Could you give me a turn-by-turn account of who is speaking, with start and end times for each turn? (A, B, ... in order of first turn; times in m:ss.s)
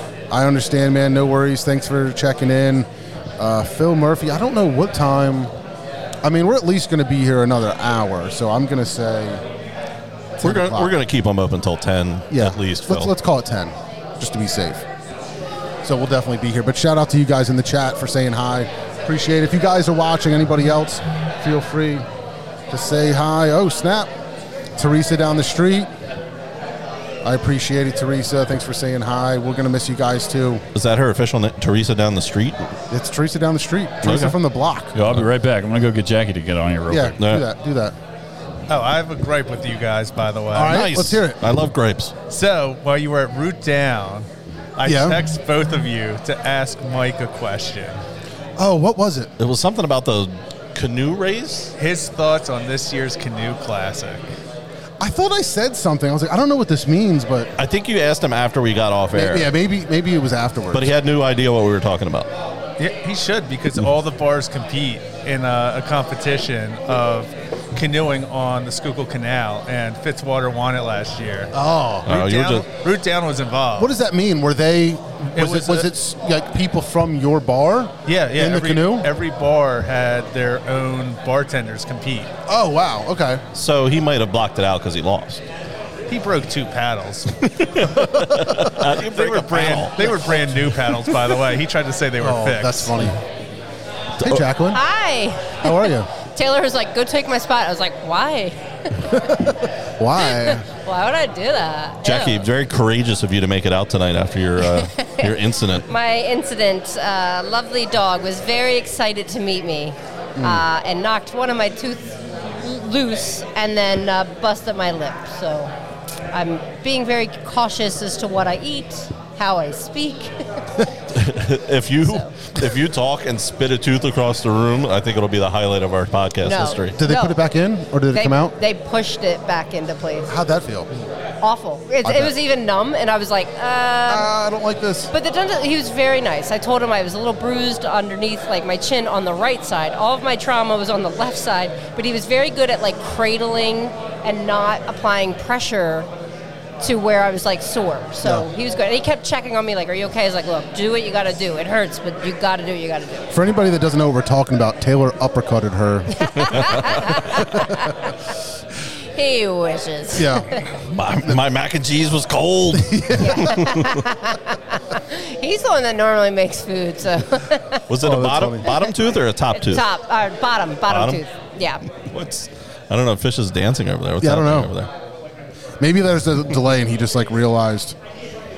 0:00.3-0:05.5 A
0:06.2-0:09.4 A
0:10.4-0:10.9 A
0:10.4-0:13.1 B
0:12.3-0:14.8 A
0:15.8-0:22.0 A
0:22.7-0:24.1 A
0:24.8-0:25.9 A
0:27.2-0:30.6 A
0:30.7-0:32.7 B
0:32.9-0:34.9 A
0:34.0-0:34.4 B
0:34.9-0:37.2 C
0:36.9-0:37.9 A
0:37.2-0:37.4 B
0:38.7-0:40.8 D
0:40.5-0:41.4 A
0:40.6-0:42.1 B
0:42.3-0:48.0 D
0:44.8-0:45.2 A
0:48.6-0:49.3 A
0:49.4-0:51.7 B
0:51.8-0:54.2 D
0:55.0-0:57.5 A
0:57.6-0:59.5 B
0:59.1-1:00.9 A
1:00.7-1:02.3 B
1:02.8-1:11.5 D
1:11.5-1:12.1 A
1:12.0-1:12.6 B
1:12.1-1:13.9 D
1:13.8-1:19.1 A
1:15.4-1:15.9 D
1:18.0-1:22.3 D
1:22.5-1:23.4 A
1:23.5-1:25.4 B
1:26.1-1:27.3 D
1:27.6-1:30.0 B
1:27.9-1:28.6 A
1:29.0-1:33.1 D
1:30.0-1:30.7 A
1:32.2-1:33.2 A
1:34.2-1:34.8 A
1:34.7-1:39.2 E
1:35.6-1:36.1 A
1:39.1-1:40.6 A
1:40.2-1:42.4 E
1:42.0-1:45.8 B
1:44.6-1:45.3 E
1:45.9-1:55.7 E
1:50.4-1:50.6 A
1:56.3-2:00.3 E
2:01.1-2:07.0 B
2:02.0-2:02.3 E
2:06.4-2:07.4 E
2:07.0-2:08.6 A
2:08.1-2:10.3 E
2:10.3-2:10.9 A
2:11.4-2:14.3 E
2:12.0-2:12.3 A
2:14.0-2:15.1 A
2:15.1-2:26.1 E
2:26.8-2:33.3 E
2:33.3-2:37.7 A
2:36.2-2:38.1 E
2:39.2-2:40.4 E
2:40.1-2:40.5 A
2:40.9-2:43.9 B
2:42.7-2:43.4 A
2:43.2-2:47.8 E
2:47.9-2:49.8 B
2:48.0-2:48.8 A
2:49.5-2:51.8 E
2:50.9-2:51.2 B
2:51.9-2:54.9 B
2:54.2-2:54.7 A
2:55.8-2:58.0 A